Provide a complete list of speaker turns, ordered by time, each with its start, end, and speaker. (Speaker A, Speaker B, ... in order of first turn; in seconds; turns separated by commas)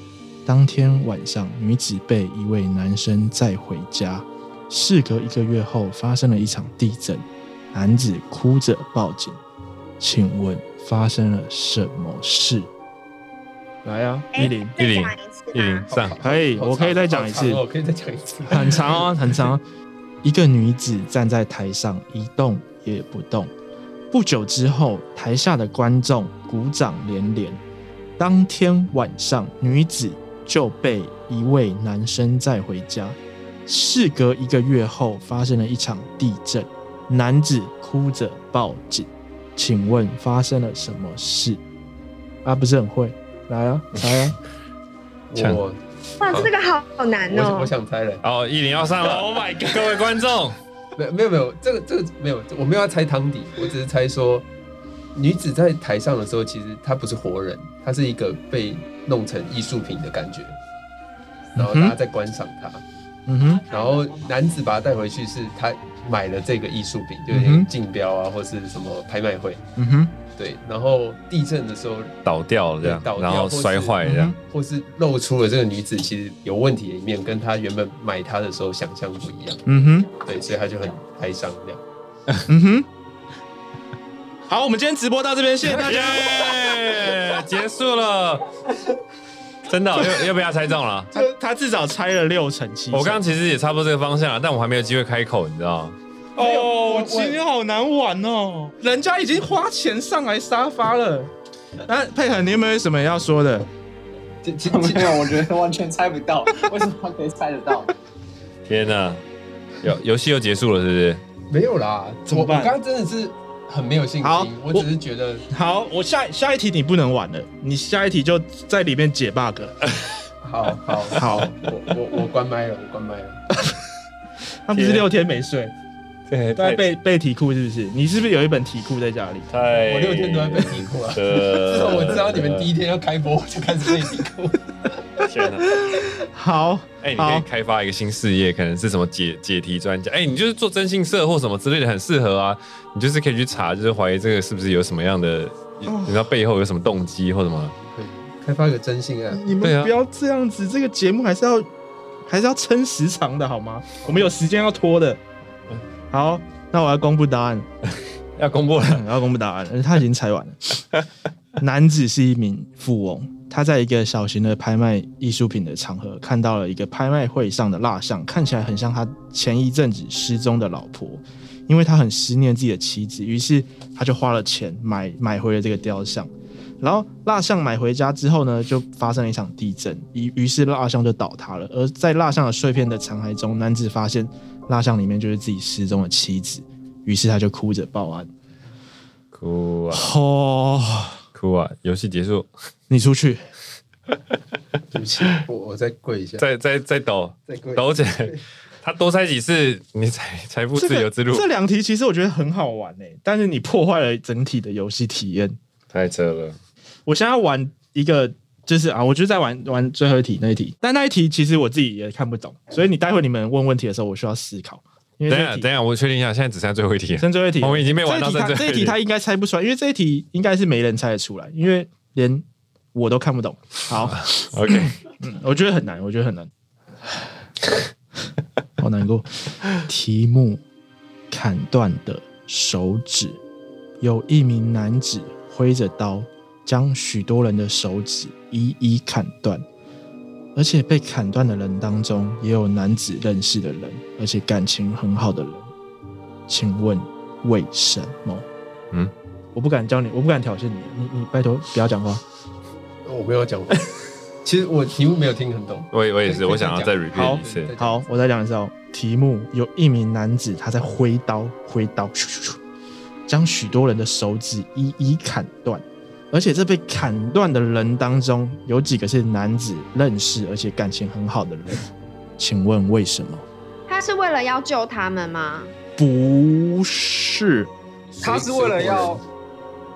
Speaker A: 0.4-9.4, Speaker A: 10.0-12.7, Speaker A: 13.8-14.8, Speaker B: 14.3-15.9, Speaker C: 14.8-16.2, Speaker D: 15.9-19.1, Speaker A: 16.2-17.6, Speaker A: 18.5-19.6, Speaker A: 20.2-23.5, Speaker A: 24.1-27.6, Speaker A: 28.2-41.6, Speaker A: 42.4-44.4, Speaker D: 45.3-46.5, Speaker C: 45.4-45.6, Speaker B: 46.2-47.7, Speaker D: 47.3-48.2, Speaker C: 48.2-50.6, Speaker A: 49.0-50.1, Speaker D: 51.0-54.5, Speaker D: 55.1-60.5, Speaker D: 61.5-62.8, Speaker A: 61.5-61.9, Speaker A: 63.3-63.7, Speaker D: 63.7-69.6, Speaker A: 67.3-67.7, Speaker A: 69.8-70.1, Speaker D: 70.3-72.1, Speaker C: 72.2-74.3, Speaker D: 72.8-79.6, Speaker A: 74.0-74.3, Speaker A: 79.7-80.1, Speaker D: 80.2-81.8, Speaker A: 82.5-82.9, Speaker A: 84.5-86.3, Speaker C: 85.6-88.5, Speaker C: 89.7-91.1, Speaker A: 91.1-93.2, Speaker C: 92.9-96.0, Speaker A: 96.4-101.3, Speaker A: 101.8-103.7, Speaker D: 104.4-105.4, Speaker E: 104.6-107.9, Speaker C: 108.7-109.2, Speaker C: 109.8-111.2, Speaker D: 111.5-115.5, Speaker A: 112.3-112.7, Speaker A: 114.2-114.9, Speaker A: 115.5-119.8, Speaker D: 120.4-123.4, Speaker A: 121.1-121.5, Speaker A: 124.7-125.7, Speaker C: 124.7-125.0, Speaker C: 126.3-126.8, Speaker A: 126.6-129.5, Speaker C: 129.5-132.7, Speaker D: 129.8-134.7, Speaker C: 135.2-135.8, Speaker A: 135.7-137.4, Speaker C: 137.0-147.7, Speaker A: 145.8-146.3, Speaker D: 147.8-149.4, Speaker A: 149.3-151.7, Speaker C: 149.6-149.9, Speaker A: 152.2-155.2, Speaker A: 156.1-157.7, Speaker C: 158.3-159.1, Speaker A: 158.8-160.8, Speaker A: 161.6-188.3, Speaker C: 189.3-190.1, Speaker A: 189.9-191.2, Speaker C: 191.3-192.5, Speaker A: 192.9-193.4, Speaker D: 194.9-196.4, Speaker C: 196.4-201.5, Speaker D: 197.5-198.4, Speaker A: 200.8-205.6, Speaker C: 205.9-206.6, Speaker A: 207.1-215.7, Speaker C: 215.3-219.0, Speaker A: 217.2-226.5, Speaker C: 224.0-224.9, Speaker A: 228.8-230.6, Speaker A: 231.3-233.4, Speaker A: 234.0-239.6, Speaker A: 240.5-245.7, Speaker A: 246.5-248.5, Speaker A: 249.5-252.2, Speaker D: 253.0-258.1, Speaker C: 255.9-257.7, Speaker A: 257.1-262.6, Speaker A: 263.3-273.4, Speaker B: 273.9-275.7, Speaker A: 275.9-277.7, Speaker D: 278.1-279.2, Speaker E: 278.2-279.2